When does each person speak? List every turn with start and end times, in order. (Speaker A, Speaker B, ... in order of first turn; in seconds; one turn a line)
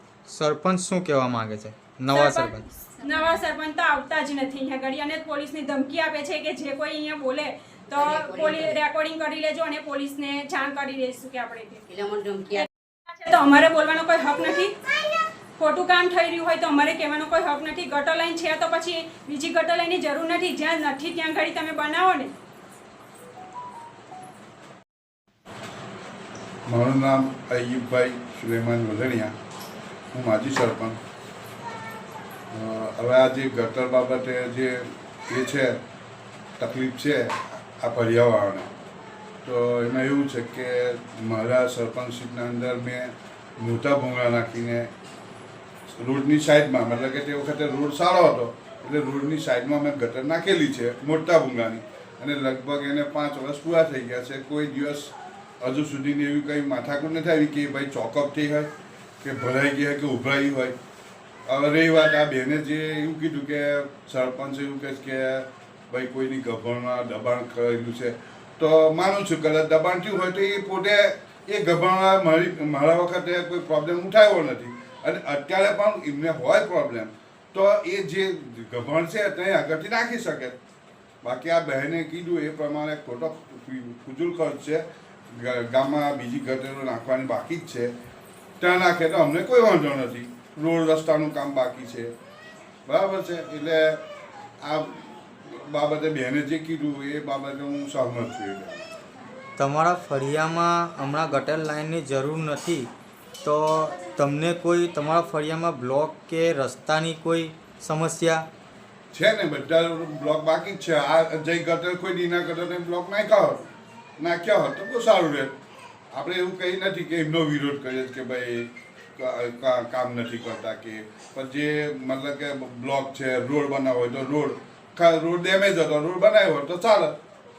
Speaker A: 0.3-2.6
Speaker B: 2.1-11.8
Speaker C: 3.0-3.3
Speaker C: 7.9-8.8
Speaker C: 11.9-12.7
Speaker B: 12.6-14.7
Speaker B: 15.6-22.3
Speaker D: 26.7-29.3
Speaker D: 30.1-31.0
Speaker D: 32.5-35.8
Speaker D: 36.6-38.7
Speaker D: 39.4-44.9
Speaker D: 46.0-58.7
Speaker D: 59.2-60.7
Speaker D: 61.5-80.5
Speaker D: 81.2-87.9
Speaker D: 88.6-92.1
Speaker D: 92.9-94.0
Speaker D: 94.6-98.9
Speaker A: 99.6-102.9
Speaker A: 103.4-108.5
Speaker D: 109.1-113.6
Speaker D: 114.2-115.5
Speaker D: 116.1-127.1